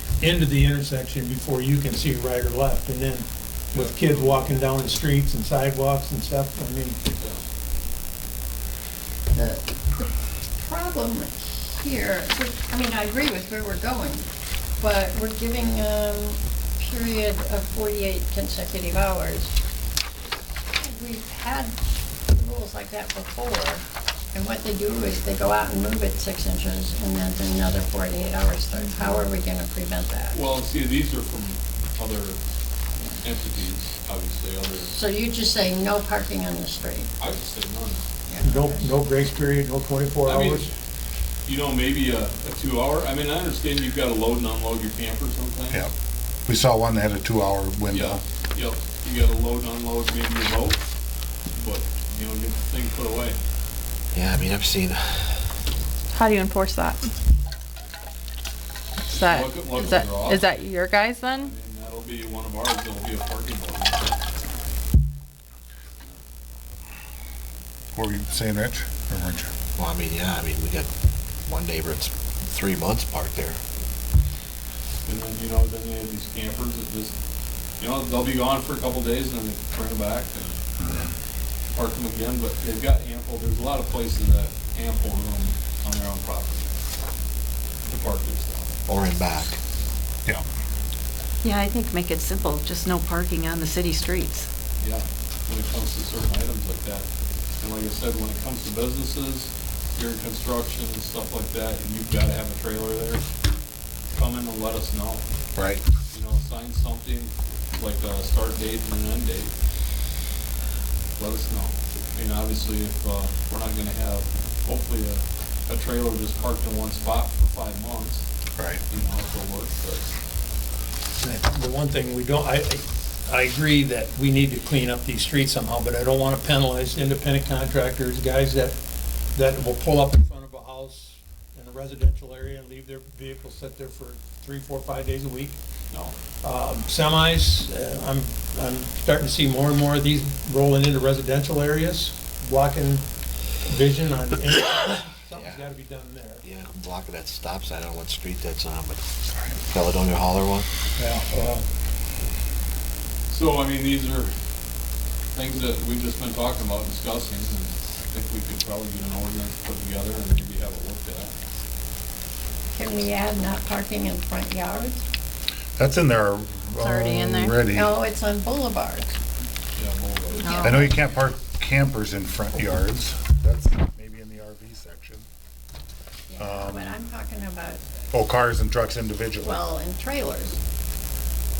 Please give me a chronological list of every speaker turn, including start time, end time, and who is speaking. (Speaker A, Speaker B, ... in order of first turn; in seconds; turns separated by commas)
Speaker A: 0.2-7.0, Speaker B: 3.7-4.6, Speaker B: 7.1-7.4, Speaker C: 9.3-14.3, Speaker C: 14.8-19.5, Speaker C: 20.8-21.7, Speaker C: 22.3-30.4, Speaker B: 30.3-32.4, Speaker B: 33.2-34.9, Speaker C: 34.8-37.1, Speaker B: 37.2-38.0, Speaker C: 38.3-38.9, Speaker A: 38.4-40.7, Speaker B: 40.2-40.7, Speaker B: 41.5-45.8, Speaker D: 46.5-48.2, Speaker B: 47.9-50.8, Speaker B: 51.5-53.4, Speaker E: 54.1-55.3, Speaker F: 56.1-57.1, Speaker F: 59.1-61.5, Speaker B: 59.1-60.5, Speaker B: 61.3-64.2, Speaker D: 67.9-69.5, Speaker E: 69.8-70.9, Speaker E: 71.5-73.6, Speaker B: 75.0-77.1, Speaker B: 77.8-80.6, Speaker D: 80.8-81.1, Speaker B: 81.7-86.7, Speaker B: 87.9-88.8, Speaker E: 88.9-89.6, Speaker G: 91.4-94.5, Speaker B: 94.8-97.0, Speaker B: 97.6-103.2, Speaker B: 104.1-105.3, Speaker D: 105.5-105.8, Speaker B: 106.1-109.5, Speaker B: 111.2-118.2, Speaker B: 118.9-120.2, Speaker A: 121.2-128.8, Speaker A: 129.3-135.6, Speaker A: 136.4-143.0, Speaker A: 143.6-146.4, Speaker E: 145.3-145.6, Speaker E: 146.4-149.0, Speaker E: 149.6-150.7, Speaker A: 151.0-151.6, Speaker B: 153.3-154.3, Speaker B: 155.3-161.3, Speaker C: 162.7-165.0, Speaker D: 165.8-167.9, Speaker F: 166.8-167.6, Speaker C: 167.7-169.2, Speaker B: 169.7-170.8, Speaker F: 170.4-170.9, Speaker D: 170.6-175.2, Speaker C: 176.3-177.8, Speaker D: 176.4-177.0, Speaker D: 178.1-179.6, Speaker C: 179.4-180.6